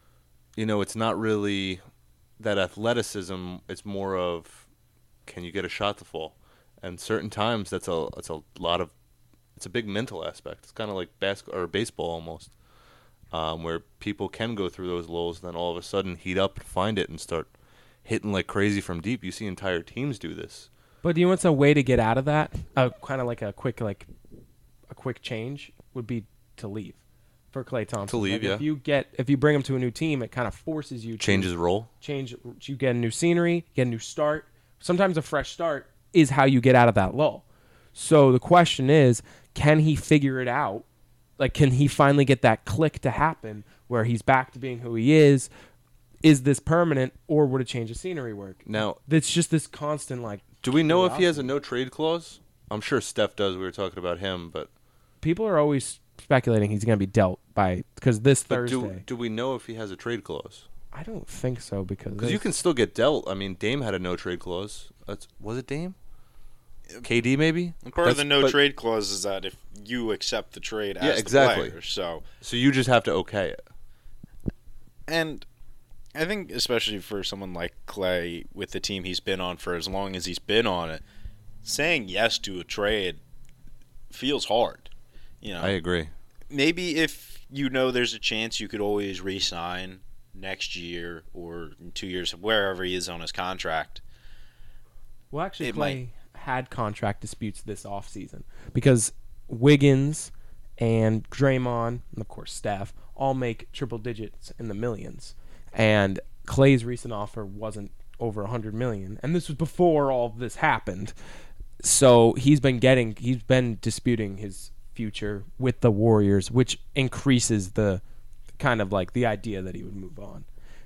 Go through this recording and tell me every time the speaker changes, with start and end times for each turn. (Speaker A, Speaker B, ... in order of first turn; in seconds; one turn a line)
Speaker A: 0.6-1.8
Speaker A: 2.4-4.7
Speaker A: 5.2-8.9
Speaker A: 9.6-12.5
Speaker A: 13.3-17.5
Speaker A: 18.0-20.7
Speaker B: 21.0-24.1
Speaker B: 24.9-27.0
Speaker B: 27.5-40.9
Speaker A: 28.1-28.6
Speaker A: 31.2-31.9
Speaker B: 41.4-45.5
Speaker B: 46.2-51.5
Speaker A: 48.6-49.0
Speaker A: 50.6-54.7
Speaker B: 55.2-59.0
Speaker A: 58.5-60.6
Speaker B: 60.9-62.5
Speaker A: 62.2-66.0
Speaker A: 67.0-68.5
Speaker C: 67.8-72.2
Speaker A: 71.0-71.7
Speaker A: 72.4-73.6
Speaker C: 75.1-75.4
Speaker C: 76.1-81.0
Speaker C: 81.6-83.2
Speaker C: 84.1-84.9
Speaker C: 85.4-85.8
Speaker A: 85.6-86.1
Speaker C: 86.5-94.0
Speaker B: 95.3-111.1
Speaker C: 95.6-96.0
Speaker B: 111.8-118.0
Speaker B: 118.6-120.5